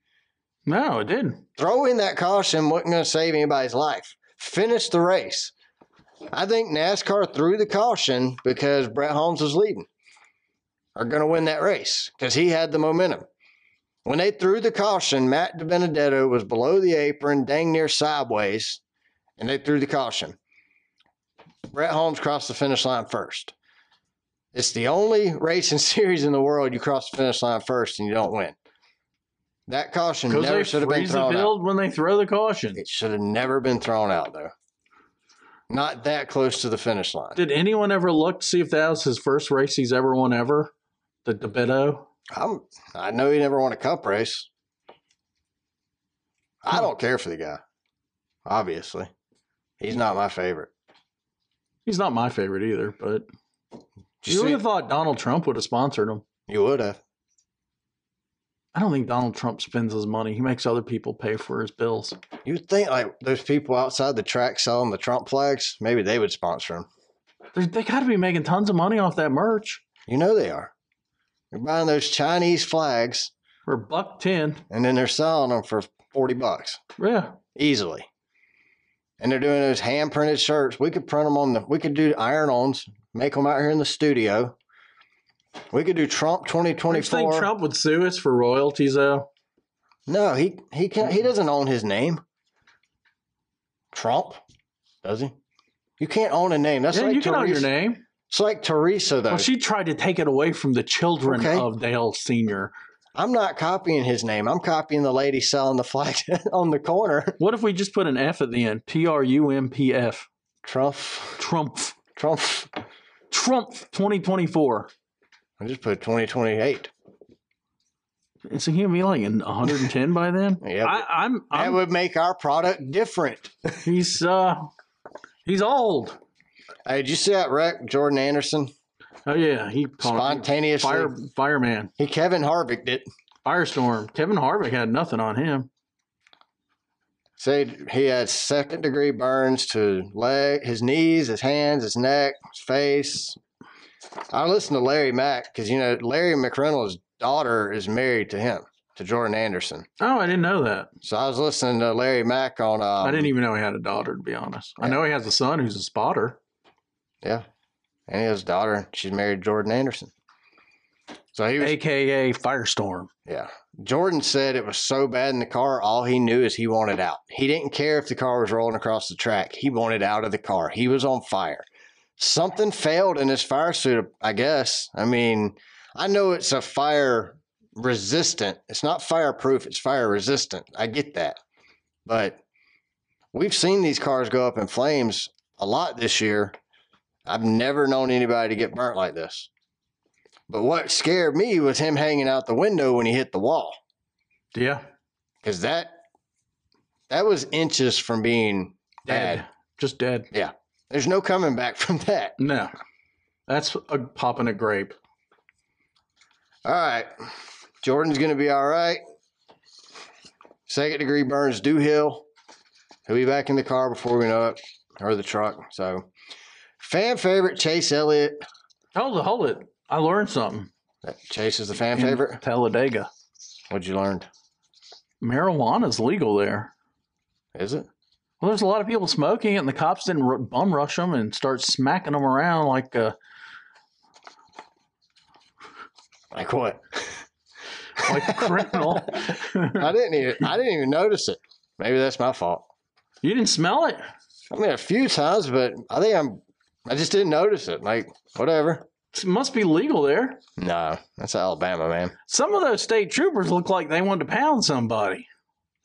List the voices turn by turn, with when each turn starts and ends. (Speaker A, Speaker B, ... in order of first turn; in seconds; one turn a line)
Speaker A: 0.7-1.4
Speaker B: 1.6-5.5
Speaker B: 6.3-9.9
Speaker B: 11.0-13.2
Speaker B: 14.1-18.8
Speaker B: 19.4-20.4
Speaker B: 21.7-23.5
Speaker B: 24.5-28.6
Speaker B: 29.7-31.5
Speaker A: 30.3-32.8
Speaker B: 32.8-34.5
Speaker B: 35.7-37.4
Speaker A: 37.4-40.7
Speaker A: 41.2-42.1
Speaker B: 42.3-44.5
Speaker B: 46.6-47.6
Speaker B: 48.5-49.1
Speaker B: 49.8-50.7
Speaker A: 51.9-53.3
Speaker B: 54.2-54.6
Speaker A: 54.3-56.2
Speaker B: 56.5-57.0
Speaker A: 58.7-62.2
Speaker B: 62.5-66.9
Speaker A: 67.5-69.8
Speaker B: 70.1-70.7
Speaker B: 71.5-73.3
Speaker A: 73.7-74.6
Speaker B: 74.7-76.8
Speaker A: 77.0-77.4
Speaker B: 77.6-78.1
Speaker B: 79.2-84.6
Speaker B: 85.7-87.5
Speaker A: 86.9-89.3
Speaker B: 90.1-92.2
Speaker B: 93.9-94.4
Speaker B: 95.0-95.3
Speaker B: 96.0-97.7
Speaker A: 96.9-98.0
Speaker B: 98.3-99.5
Speaker A: 99.3-102.7
Speaker B: 101.3-101.7
Speaker B: 103.2-107.4
Speaker A: 107.4-110.3
Speaker B: 110.6-111.4
Speaker A: 111.4-112.0
Speaker B: 112.2-112.7
Speaker A: 113.3-114.9
Speaker B: 115.6-116.9
Speaker A: 118.5-121.8
Speaker B: 120.6-123.8
Speaker A: 123.8-124.7
Speaker A: 125.5-126.2
Speaker B: 126.9-128.7
Speaker A: 129.3-131.9
Speaker B: 130.0-131.1
Speaker B: 132.0-133.1
Speaker A: 133.4-135.7
Speaker B: 137.4-143.4
Speaker B: 144.3-149.9
Speaker A: 150.0-150.9
Speaker B: 151.0-153.3
Speaker A: 153.0-156.4
Speaker B: 158.1-160.1
Speaker B: 161.3-161.8
Speaker A: 161.6-163.1
Speaker B: 163.3-171.7
Speaker B: 172.2-181.4
Speaker B: 182.1-182.4
Speaker B: 183.3-186.6
Speaker B: 187.3-189.5
Speaker B: 190.5-193.8
Speaker A: 194.5-194.8
Speaker B: 195.4-195.9
Speaker B: 197.1-199.4
Speaker A: 199.1-200.3
Speaker B: 200.3-202.4
Speaker A: 202.4-202.7
Speaker A: 203.5-205.0
Speaker B: 206.7-207.1
Speaker B: 207.8-209.0
Speaker B: 210.7-212.3
Speaker B: 213.1-216.1
Speaker B: 216.8-218.4
Speaker A: 218.9-220.7
Speaker B: 221.0-222.4
Speaker A: 221.9-223.1
Speaker B: 223.7-224.3
Speaker A: 225.2-226.7
Speaker B: 227.6-227.9
Speaker A: 228.4-233.2
Speaker B: 236.3-237.2
Speaker A: 238.0-239.9
Speaker B: 238.0-239.0
Speaker B: 239.8-242.7
Speaker A: 243.2-244.0
Speaker B: 244.5-248.9
Speaker A: 249.1-250.4
Speaker B: 250.6-252.1
Speaker A: 252.3-255.3